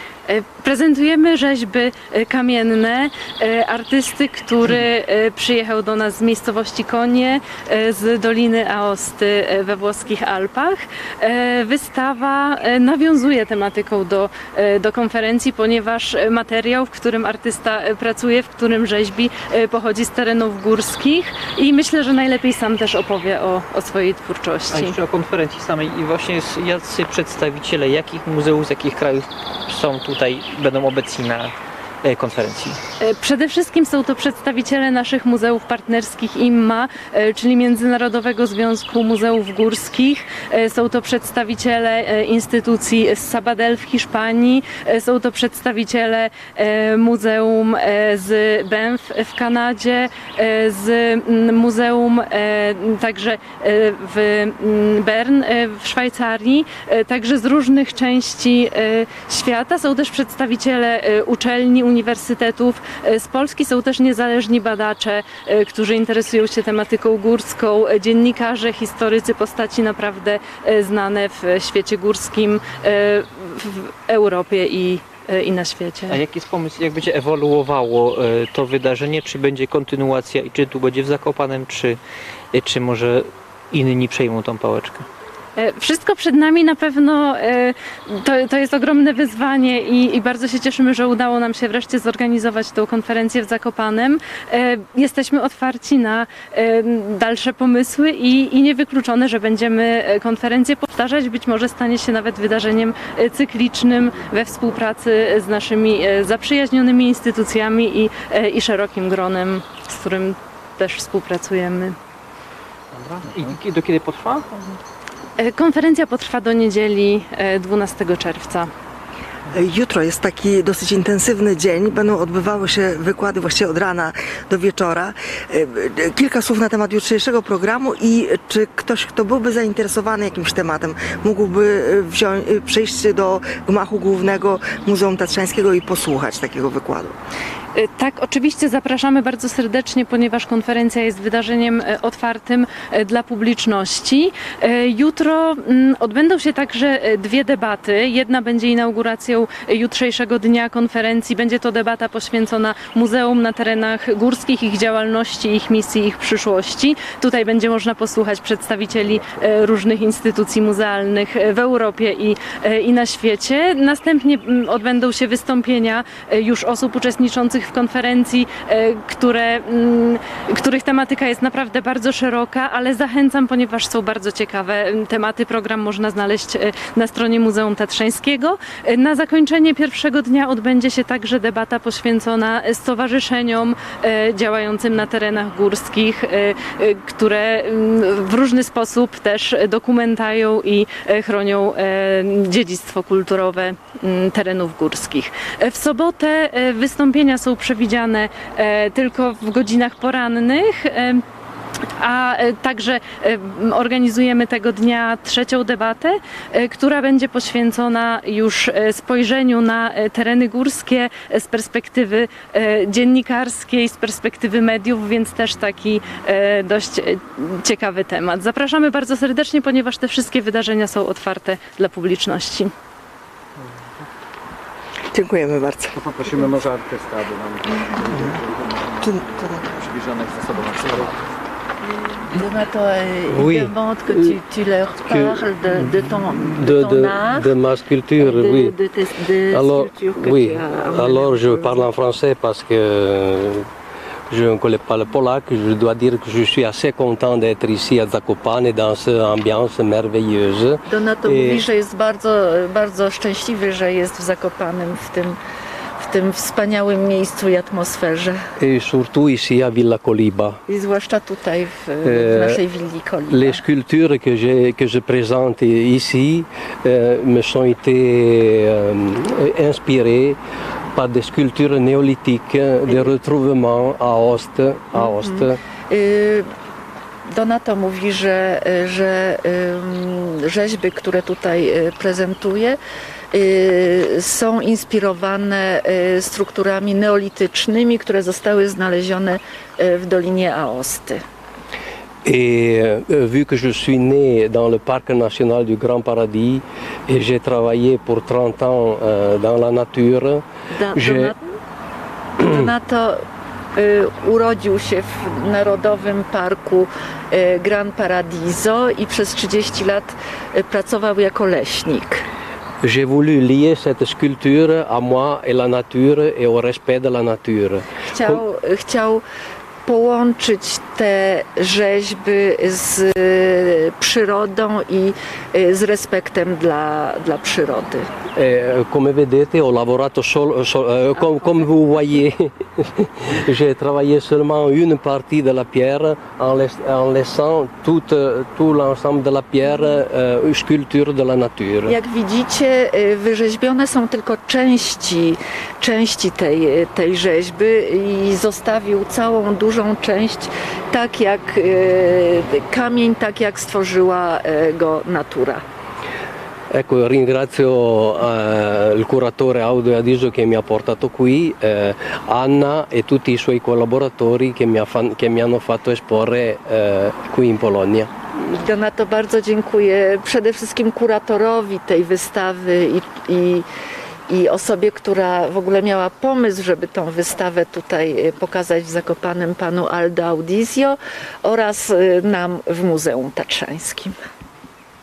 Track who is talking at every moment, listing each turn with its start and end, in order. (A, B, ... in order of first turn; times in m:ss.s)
0:00.3-0:25.0 A
0:24.7-0:32.8 B
0:33.0-1:16.2 A
1:16.1-1:22.0 B
1:22.5-1:25.0 B
1:25.6-1:52.0 A
1:53.0-1:54.8 B
1:55.4-1:58.7 A
1:59.5-2:17.2 C
2:17.7-3:21.2 A
3:22.0-3:42.7 A
3:45.1-3:46.0 C
3:45.9-3:51.2 D
3:49.0-3:49.8 C
3:52.3-3:57.5 E
3:53.3-3:54.4 F
3:55.1-3:55.4 F
3:56.4-3:58.8 F
3:58.2-4:01.8 E
3:59.5-4:03.7 F
4:04.3-4:11.6 F
4:10.9-4:15.4 E
4:16.0-4:18.4 E
4:18.6-4:20.6 F
4:20.7-4:23.6 E
4:22.0-4:22.6 F
4:23.3-4:30.4 F
4:30.9-4:35.6 F
4:34.9-4:36.5 E
4:37.3-4:42.8 E
4:43.3-4:51.2 E
4:52.2-5:01.3 F
5:00.7-5:01.6 E
5:02.4-5:03.2 E
5:02.4-5:02.7 F
5:03.8-5:12.2 E
5:12.8-5:18.4 F
5:18.0-5:19.2 E
5:19.8-5:28.1 E
5:28.4-5:42.0 F
5:41.9-5:55.6 E
5:56.7-6:08.1 F
6:08.4-6:13.6 E
6:14.3-6:24.1 E